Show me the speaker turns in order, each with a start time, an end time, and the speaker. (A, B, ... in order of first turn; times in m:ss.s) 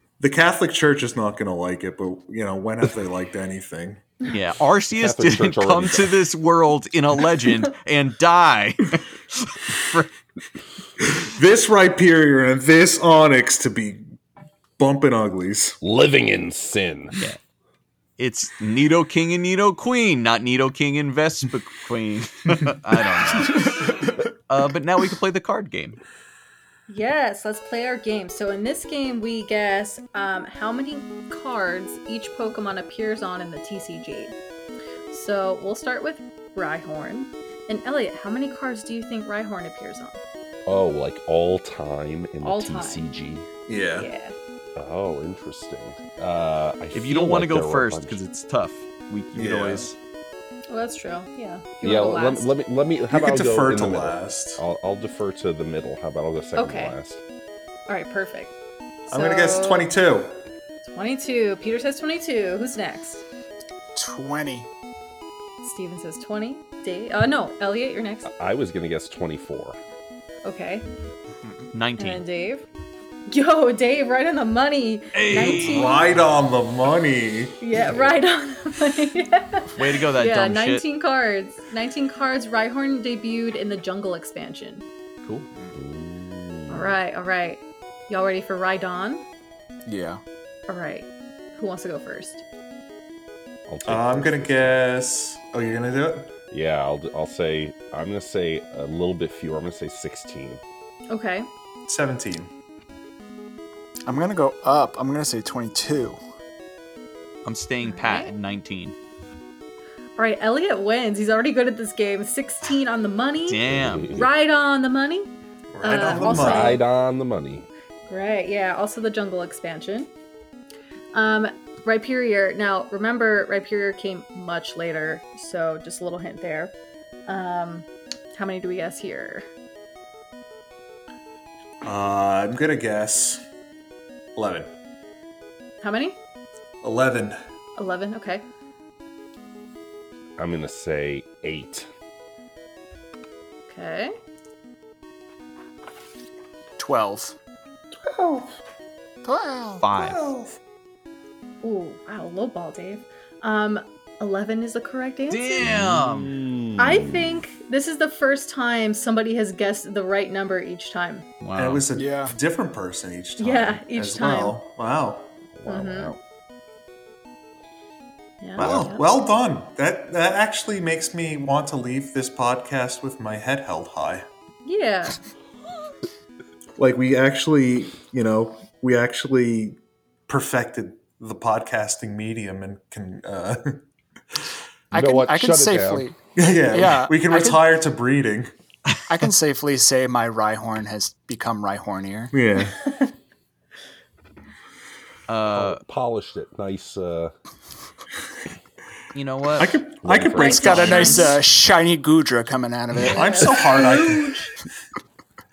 0:00.2-0:04.0 A
0:04.2-0:10.1 B
0:05.0-0:06.2 C
0:11.0-0:14.1 A
0:14.8-0:15.8 A
0:15.8-0:17.1 C
0:17.1-0:17.4 B
0:18.2-0:26.0 B
0:26.9-0:34.3 D
0:35.1-0:40.2 D
0:40.7-0:43.5 C
0:42.4-0:43.0 D
0:43.7-0:44.1 A
0:43.9-0:44.3 D
0:44.8-0:48.2 C
0:46.9-0:50.0 B
0:49.3-0:49.9 A
0:50.7-0:52.5 D
0:51.8-0:57.2 C
0:53.1-0:54.6 A
0:56.6-0:57.0 D
0:57.9-0:59.9 D
0:59.1-1:00.4 A
1:00.8-1:03.2 D
1:03.9-1:04.7 E
1:05.6-1:08.3 D
1:08.2-1:09.8 C
1:10.4-1:10.8 D
1:11.4-1:11.7 E
1:11.7-1:12.2 B
1:12.0-1:12.6 D
1:13.3-1:16.1 D
1:15.1-1:16.0 B
1:15.2-1:17.6 A
1:17.6-1:24.8 D
1:17.8-1:18.2 C
1:19.8-1:20.8 B
1:25.7-1:27.0 C
1:26.7-1:29.2 D
1:29.8-1:30.2 E
1:30.7-1:32.4 D
1:33.7-1:34.8 C
1:33.9-1:36.3 A
1:36.5-1:40.6 C
1:41.1-1:41.5 D
1:41.9-1:42.5 A
1:44.0-1:46.2 E
1:47.4-1:49.0 B
1:47.8-1:48.3 D
1:50.2-1:55.3 D
1:53.5-1:54.2 B
1:53.7-1:54.3 C
1:55.7-1:56.8 A
1:55.8-1:56.8 D
1:56.2-1:57.7 C
1:58.1-2:00.1 D
2:01.1-2:06.7 D
2:07.3-2:09.5 D
2:11.8-2:13.4 A
2:14.4-2:14.7 A
2:15.8-2:16.2 D
2:16.8-2:17.4 A
2:17.8-2:18.4 D
2:20.4-2:21.9 C
2:23.7-2:24.1 D
2:26.8-2:27.4 E
2:28.1-2:28.5 A
2:29.2-2:29.8 E
2:29.8-2:30.3 B
2:29.9-2:30.6 A
2:31.6-2:35.7 D
2:35.3-2:36.3 B
2:35.6-2:37.4 C
2:36.8-2:41.3 D
2:41.4-2:41.8 B
2:41.6-2:45.3 A
2:41.9-2:42.3 E
2:43.4-2:44.6 D
2:45.6-2:46.2 C
2:45.7-2:46.1 D
2:48.4-2:49.0 D
2:48.6-2:48.9 C
2:48.6-2:54.2 A
2:54.6-2:55.2 D
2:56.8-2:59.8 A
3:00.3-3:03.8 A
3:04.9-3:06.1 C
3:04.9-3:06.2 E
3:06.4-3:08.5 A
3:06.7-3:07.6 E
3:09.1-3:12.3 E
3:12.3-3:12.8 A
3:12.8-3:13.1 D
3:15.3-3:15.8 B
3:15.5-3:17.3 C
3:19.1-3:19.8 B
3:19.6-3:21.1 A
3:20.0-3:21.2 C
3:20.4-3:21.4 D
3:20.4-3:23.5 E
3:23.0-3:24.4 A
3:23.0-3:24.5 D